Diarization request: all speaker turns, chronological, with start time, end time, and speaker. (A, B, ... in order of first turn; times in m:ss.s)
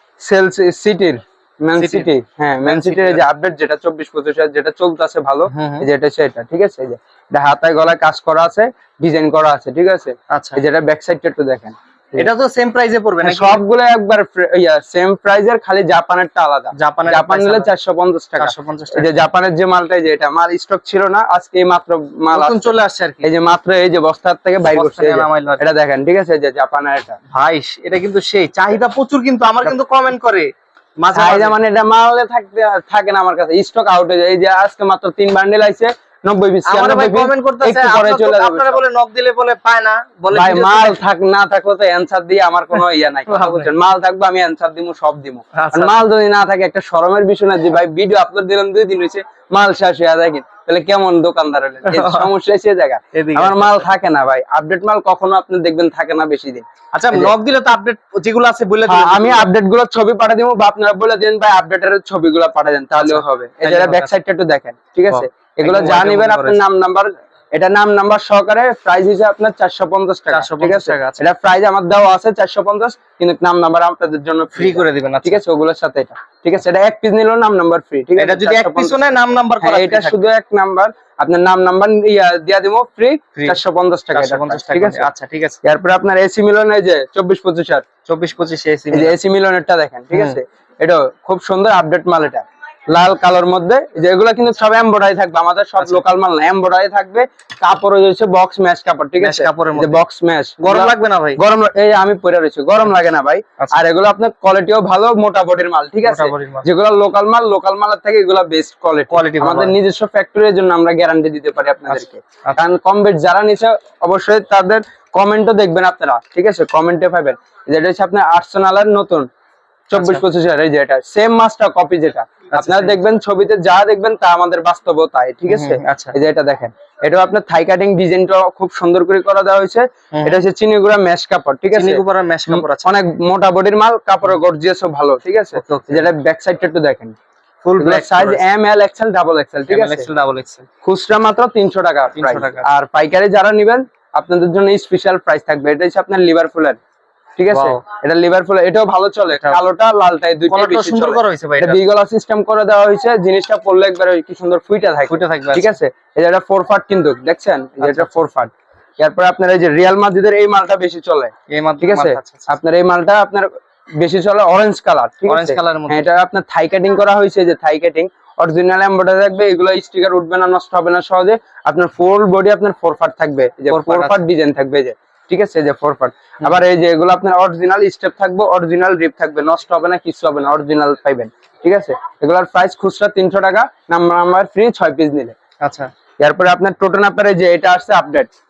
0:00.2-0:12.3 A
0:01.8-0:02.1 B
0:02.6-0:03.2 B
0:05.5-0:05.9 B
0:10.3-0:10.6 B
0:12.2-0:13.6 B
0:13.2-0:22.7 A
0:16.7-0:17.7 B
0:18.4-0:19.2 B
0:22.3-0:23.3 B
0:23.2-0:27.2 A
0:24.7-0:25.6 B
0:27.3-0:31.6 B
0:31.1-0:38.8 A
0:36.6-0:41.0 B
0:40.3-0:57.3 A
0:43.3-0:43.7 B
0:45.5-0:46.0 B
0:51.8-0:52.3 B
0:53.1-0:53.8 B
0:56.9-0:59.5 B
0:58.9-1:19.0 A
1:03.0-1:04.1 B
1:05.1-1:06.6 B
1:10.3-1:11.2 B
1:14.6-1:15.4 B
1:18.2-1:20.2 B
1:19.6-1:25.1 A
1:24.1-1:25.6 B
1:25.6-1:27.9 A
1:28.1-1:29.2 B
1:28.9-1:59.3 A
1:39.2-1:40.0 B
1:40.6-1:41.4 B
1:46.0-1:46.7 B
1:49.1-1:49.8 B
1:51.9-1:52.6 B
1:59.9-2:17.2 A
1:59.9-2:00.2 B
2:02.5-2:03.0 B
2:05.5-2:06.2 B
2:10.1-2:10.4 B
2:11.7-2:13.0 B
2:15.6-2:16.1 B
2:17.6-2:18.4 B
2:17.8-2:20.1 A
2:19.7-2:20.7 B
2:20.8-2:26.8 A
2:22.2-2:22.7 B
2:27.4-3:05.4 A
2:27.5-2:27.8 B
2:29.3-2:29.6 B
2:30.5-2:31.8 B
2:35.1-2:35.7 B
2:37.8-2:38.1 B
2:41.5-2:42.5 B
2:45.3-2:46.0 B
2:53.7-2:54.2 B
3:05.6-3:05.9 B
3:06.2-3:08.3 A